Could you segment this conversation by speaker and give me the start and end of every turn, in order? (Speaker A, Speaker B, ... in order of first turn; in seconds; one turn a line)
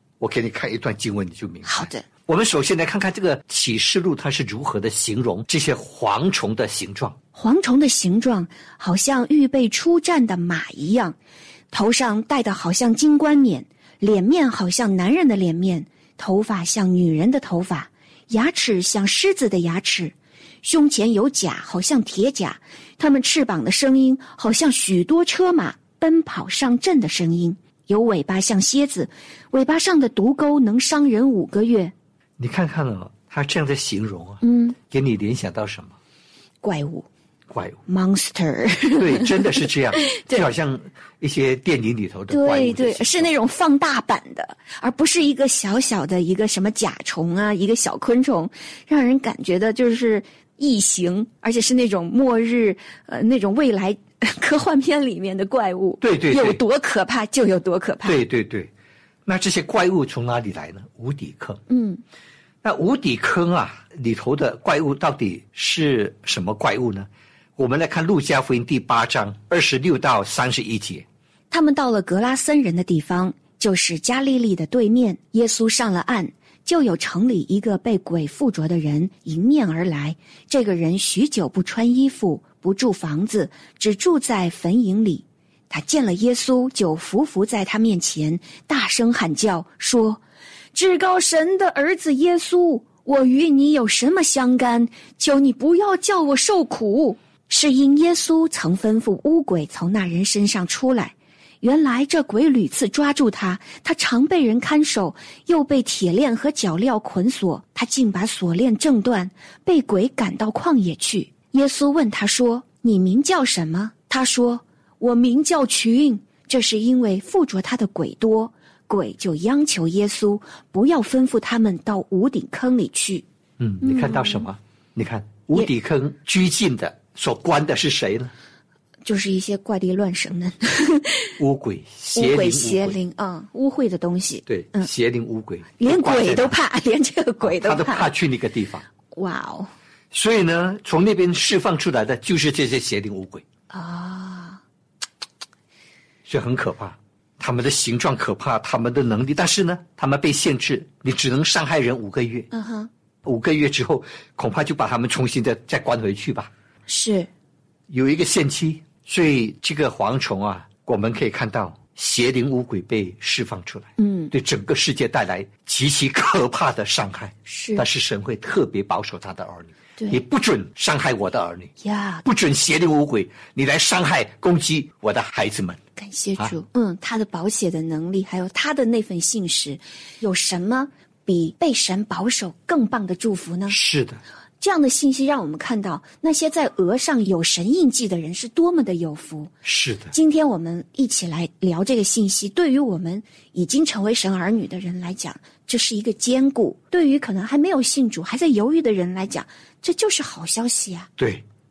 Speaker A: 0.2-7.2
Speaker B: 1.6-2.0
Speaker B: 7.3-11.2
Speaker B: 11.7-31.9
Speaker A: 32.4-36.0
Speaker B: 34.4-34.8
Speaker B: 36.6-37.1
Speaker A: 37.5-37.8
Speaker B: 37.9-39.7
Speaker A: 39.0-43.3
Speaker B: 42.3-58.2
Speaker A: 56.0-56.6
Speaker A: 58.0-58.7
Speaker A: 59.2-61.6
Speaker B: 61.7-62.0
Speaker A: 62.6-71.0
Speaker B: 71.5-90.2
Speaker B: 90.7-123.2
Speaker A: 123.6-128.3
Speaker B: 123.8-124.5
Speaker B: 129.0-131.4
Speaker A: 131.4-133.0
Speaker B: 132.1-134.9
Speaker A: 134.4-136.5
Speaker B: 135.8-138.1
Speaker A: 137.4-138.8
Speaker B: 139.1-139.7
Speaker A: 140.1-143.4
Speaker B: 143.7-144.6
Speaker A: 146.2-152.5
Speaker B: 152.5-152.9
Speaker A: 153.2-156.5
Speaker B: 156.9-157.3
Speaker A: 157.9-171.7
Speaker B: 164.0-164.3
Speaker B: 167.4-167.8
Speaker B: 171.8-172.2
Speaker A: 172.2-175.8
Speaker B: 175.9-183.8
Speaker A: 183.7-184.2
Speaker B: 184.6-189.5
Speaker A: 189.6-190.1
Speaker B: 190.1-201.1
Speaker A: 201.2-201.4